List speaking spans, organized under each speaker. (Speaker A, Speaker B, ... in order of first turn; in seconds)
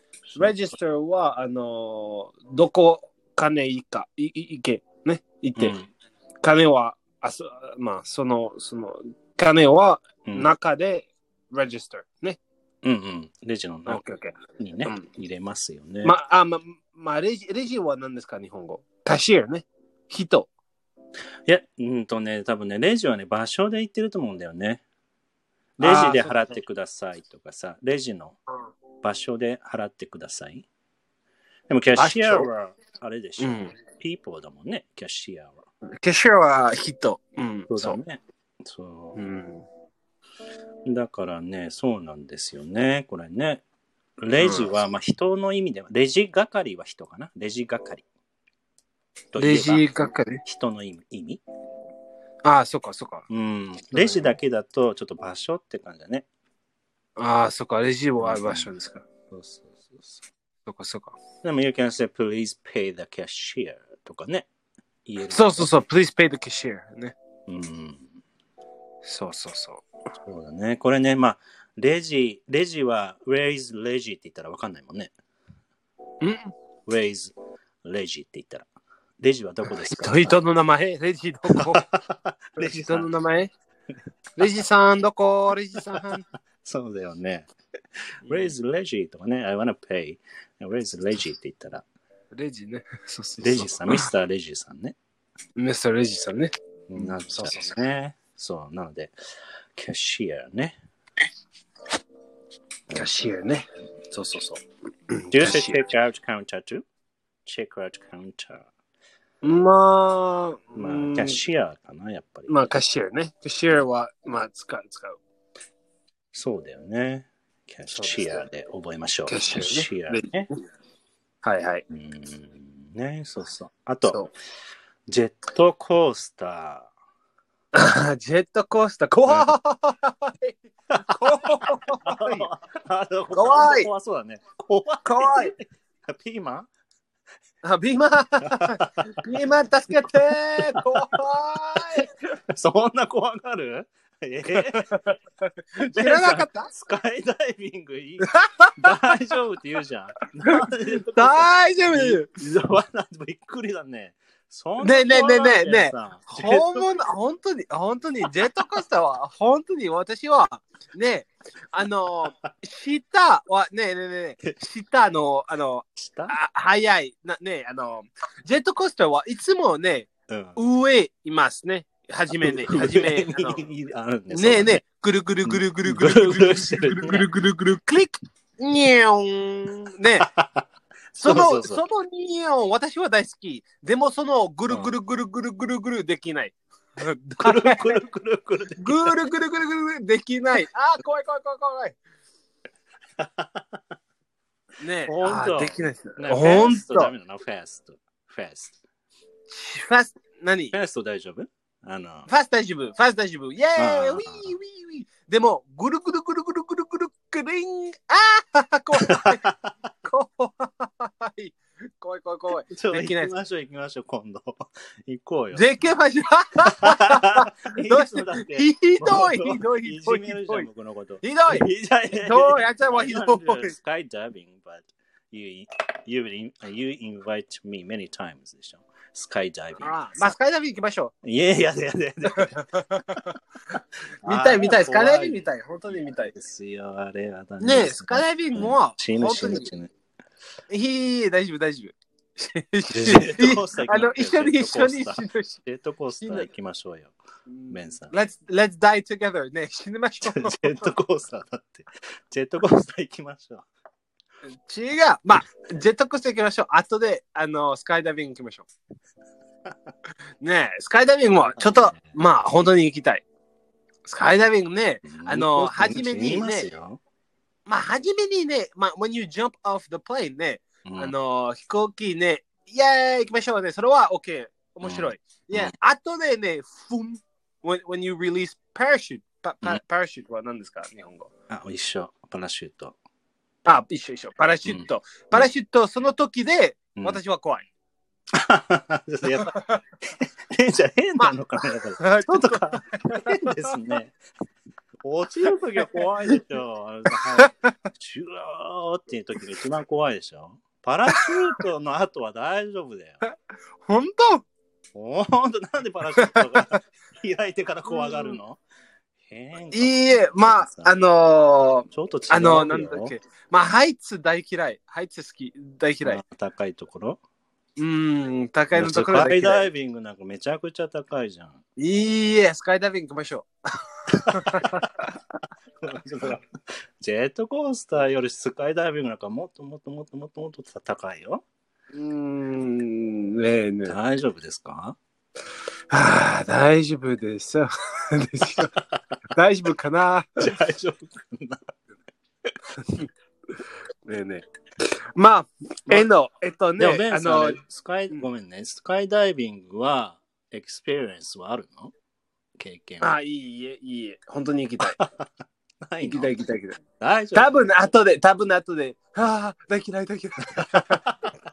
Speaker A: 0.3-5.8, 6.4-12.4, 13.9-15.1, 16.0-20.5, 25.8-26.5, 31.9-32.5, 33.4-33.7, 36.0-38.0, 39.1-39.7, 44.4-44.7, 49.4-50.4, 52.5-53.3, 53.9-54.3, 57.2-59.0, 60.7-61.2, 65.3-67.2, 69.0-69.8, 76.2-76.5, 79.7-81.9, 82.6-83.5, 84.4-86.2, 92.3-94.1, 95.6-97.7, 102.9-105.8, 109.4-111.4, 112.5-115.2, 117.9-118.5, 119.3-120.6, 121.4-121.8, 127.7-132.5, 133.3-133.9, 135.1-135.5, 137.6-142.2, 144.5-146.7, 148.2-148.9, 150.5-152.3, 154.8-173.6, 174.3-180.3, 181.2-188.0, 188.8-192.0, 194.8-197.1, 199.5-200.8, 202.3-209.5, 210.0-213.3, 215.5-220.7, 221.2-223.8, 229.8-231.1, 232.3-236.3, 237.6-239.7, 240.7-245.6, 246.2-246.5, 247.5-250.9, 254.7-258.7, 260.4-263.2, 264.1-266.7, 267.7-281.3, 283.6-287.7, 289.4-289.8, 291.2-293.9, 295.8-296.4, 297.1-297.5, 303.8-304.4, 306.2-306.8, 307.9-308.4, 309.7-316.2, 317.8-319.7, 321.8-325.1, 331.9-334.0, 335.9-338.8, 339.3-340.5, 344.1-348.3, 353.0-355.0, 356.0-356.8, 357.3-361.0
Speaker B: 5.6-5.9, 10.3-10.5, 12.8-14.0, 14.6-16.2, 21.4-24.8, 25.8-28.4, 29.0-30.7, 31.7-35.6, 37.7-39.2, 40.9-43.6, 44.2-48.0, 49.3-49.9, 50.5-51.4, 53.3-56.3, 58.2-58.7, 59.3-60.2, 61.4-64.5, 65.1-65.7, 67.5-68.1, 70.2-75.1, 76.9-77.3, 77.8-78.7, 79.2-80.4, 81.5-83.1, 86.0-87.5, 88.2-91.8, 93.4-95.0, 96.9-99.2, 99.8-100.8, 105.3-106.8, 107.5-108.7, 110.8-112.5, 116.3-120.5, 121.9-124.3, 125.1-126.9, 130.9-136.7, 138.4-139.1, 140.6-140.9, 142.5-145.0, 145.8-156.8, 166.0-166.3, 170.3-170.6, 172.4-174.8, 175.5-177.3, 180.2-181.8, 187.4-189.2, 193.2-193.8, 195.1-198.8, 200.7-202.3, 203.8-204.6, 209.0-209.6, 212.7-215.7, 216.8-230.3, 231.2-232.6, 234.2-239.9, 242.9-247.1, 247.7-248.1, 250.2-253.7, 261.5-262.0, 265.1-267.0, 270.9-271.1, 274.8-275.7, 281.5-283.0, 284.7-285.5, 288.3-294.1, 295.0-303.2, 304.9-308.6, 309.3-310.9, 311.9-313.1, 316.0-317.2, 318.7-321.6, 324.1-324.9, 325.8-331.4, 333.9-335.0, 338.6-339.0, 340.4-341.7, 346.8-351.9, 352.6-353.1, 354.8-355.3, 355.8-356.3, 357.0-357.6, 360.5-361.3